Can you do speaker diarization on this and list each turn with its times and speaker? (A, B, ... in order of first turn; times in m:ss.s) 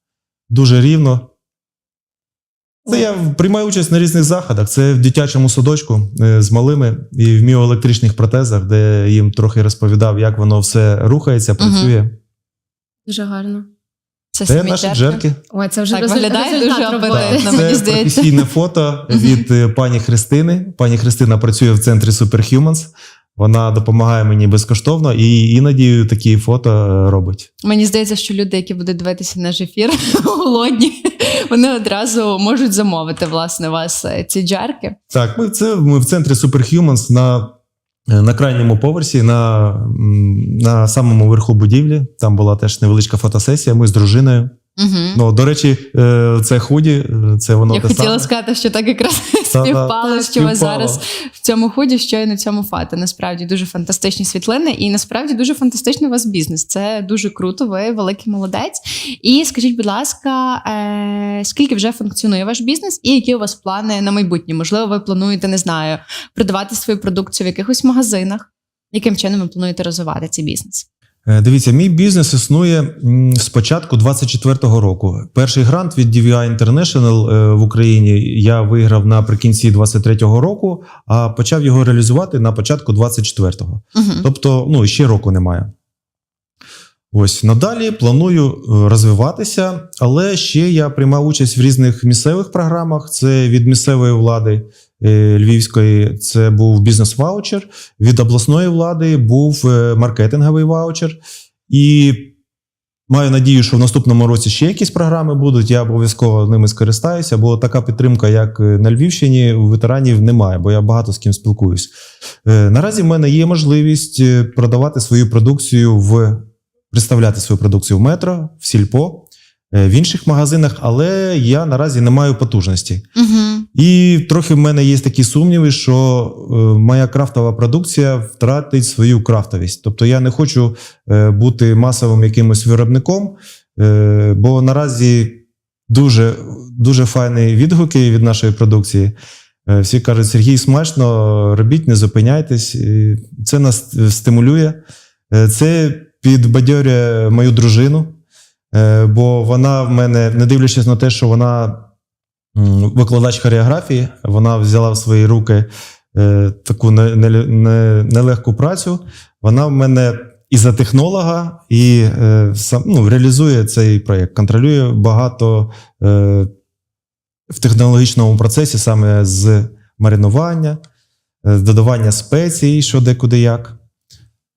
0:00.5-0:01.3 A
0:02.9-0:12.2 A
0:11.6-0:11.9 B
0:13.1-0:13.6 C
0:14.3-0:15.2 B
0:14.5-0:15.4 A
0:15.5-0:17.8 C
0:15.9-0:18.5 B
0:17.1-0:27.5 A
0:19.1-0:19.4 B
0:27.6-0:35.0 B
0:35.1-0:37.5 A
0:38.1-0:44.5 A
0:44.8-0:45.2 B
0:45.1-0:48.3 A
0:47.7-1:10.8 B
0:49.5-0:51.0 A
1:11.2-1:25.7 A
1:24.0-1:24.3 B
1:27.1-1:42.4 A
1:43.1-1:51.9 A
1:52.4-2:03.0 A
2:03.2-2:03.7 B
2:03.7-2:19.1 A
2:19.7-2:24.8 A
2:25.3-2:28.2 A
2:28.7-2:31.9 A
2:32.5-2:46.5 A
2:47.5-2:50.8 A
2:51.4-2:53.8 A